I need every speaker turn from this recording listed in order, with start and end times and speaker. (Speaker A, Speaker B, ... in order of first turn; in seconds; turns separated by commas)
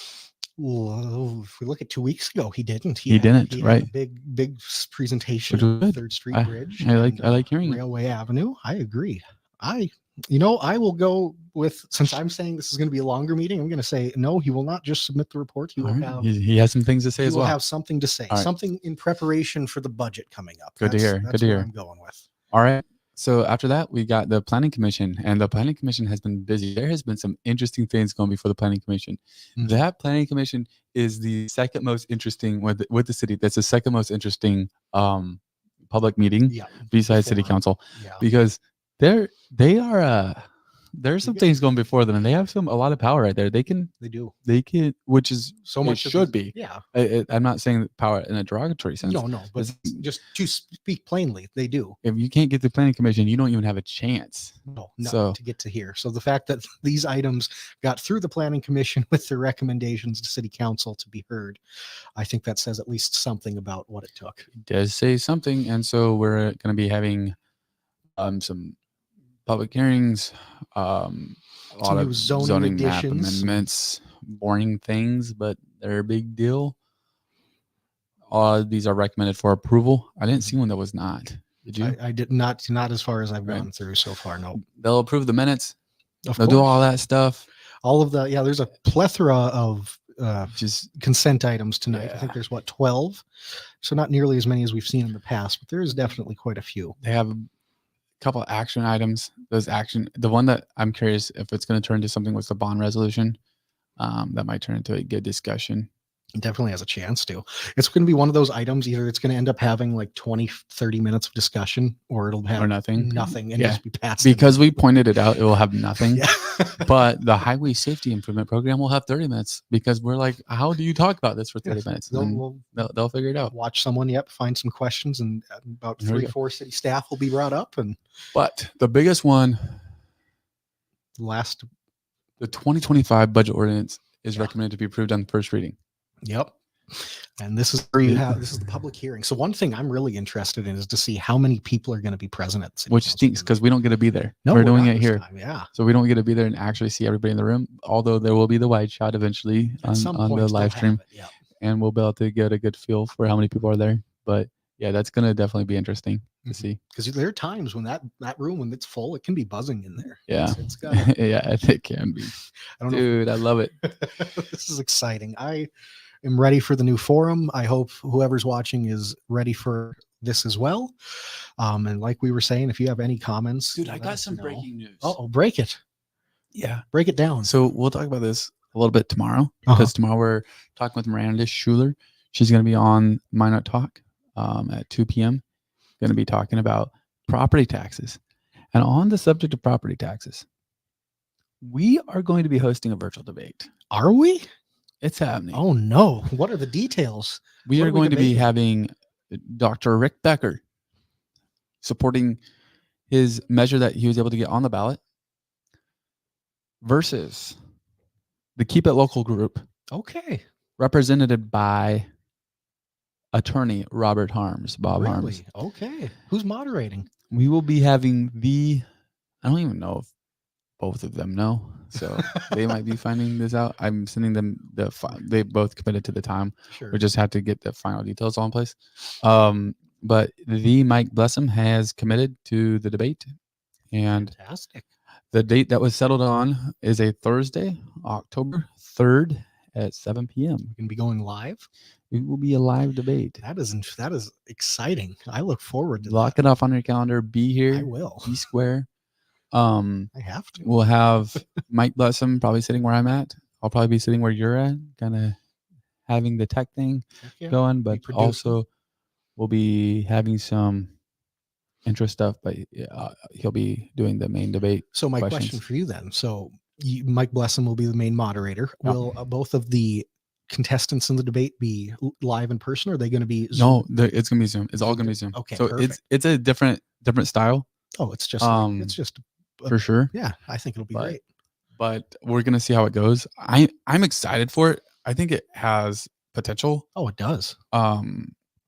Speaker A: 0.6-16.3, Speaker B: 3.1-3.9, Speaker B: 5.5-7.8, Speaker B: 15.8-17.6, Speaker A: 17.2-22.3, Speaker B: 20.8-21.7, Speaker B: 22.5-40.4, Speaker A: 36.5-38.2, Speaker B: 41.0-43.9, Speaker A: 44.0-44.3, Speaker B: 44.5-50.0, Speaker A: 45.7-46.8, Speaker A: 49.0-52.0, Speaker B: 52.0-55.4, Speaker A: 54.7-61.6, Speaker A: 62.2-64.5, Speaker B: 64.6-67.3, Speaker B: 68.2-68.8, Speaker B: 69.5-76.8, Speaker A: 71.8-73.6, Speaker B: 78.3-82.0, Speaker A: 81.8-84.6, Speaker B: 84.5-85.8, Speaker A: 86.3-86.7, Speaker B: 86.4-87.5, Speaker A: 87.8-93.2, Speaker B: 90.6-90.9, Speaker B: 91.9-92.4, Speaker A: 93.8-97.0, Speaker B: 97.0-97.5, Speaker B: 98.2-103.4, Speaker B: 104.0-105.9, Speaker A: 106.4-114.7, Speaker B: 112.6-123.5, Speaker A: 116.1-116.9, Speaker A: 121.7-122.7, Speaker A: 123.5-128.0, Speaker B: 126.0-126.3, Speaker B: 128.3-129.8, Speaker A: 131.2-131.7, Speaker B: 132.4-135.8, Speaker A: 136.2-143.6, Speaker B: 138.1-138.4, Speaker B: 142.9-151.0, Speaker A: 144.4-145.7, Speaker A: 149.8-151.3, Speaker B: 151.6-156.8, Speaker A: 156.5-161.1, Speaker B: 160.3-163.8, Speaker A: 162.8-163.2, Speaker A: 163.8-165.7, Speaker A: 166.2-170.9, Speaker A: 171.6-175.8, Speaker B: 173.8-175.2, Speaker B: 176.6-176.8, Speaker A: 176.9-177.5, Speaker B: 177.4-185.4, Speaker A: 179.7-179.9, Speaker B: 186.0-188.2, Speaker B: 188.7-190.4, Speaker B: 191.6-193.7, Speaker A: 193.9-194.4, Speaker B: 195.0-195.6, Speaker A: 195.5-198.5, Speaker B: 197.7-200.6, Speaker B: 201.8-202.4, Speaker B: 203.1-205.0, Speaker B: 206.8-207.6, Speaker B: 208.6-209.7, Speaker A: 209.9-210.4, Speaker B: 210.8-212.1, Speaker B: 213.3-215.4, Speaker A: 215.0-217.1, Speaker B: 217.3-218.8, Speaker B: 219.4-220.1, Speaker B: 220.8-233.2, Speaker A: 226.7-227.0, Speaker B: 233.9-234.3, Speaker A: 234.1-234.8, Speaker B: 235.3-240.7, Speaker A: 240.8-241.7, Speaker B: 242.1-243.4, Speaker A: 243.4-246.4, Speaker B: 246.1-248.9, Speaker A: 247.7-248.4, Speaker B: 249.5-255.4, Speaker A: 250.1-250.7, Speaker B: 256.1-258.7, Speaker A: 257.2-258.6, Speaker B: 259.4-260.9, Speaker B: 261.9-265.6, Speaker A: 264.9-273.8, Speaker B: 273.6-277.7, Speaker A: 274.8-276.0, Speaker A: 278.0-281.2, Speaker B: 278.4-279.0, Speaker B: 279.7-280.1, Speaker B: 281.8-286.9, Speaker A: 286.9-287.6, Speaker B: 287.7-288.3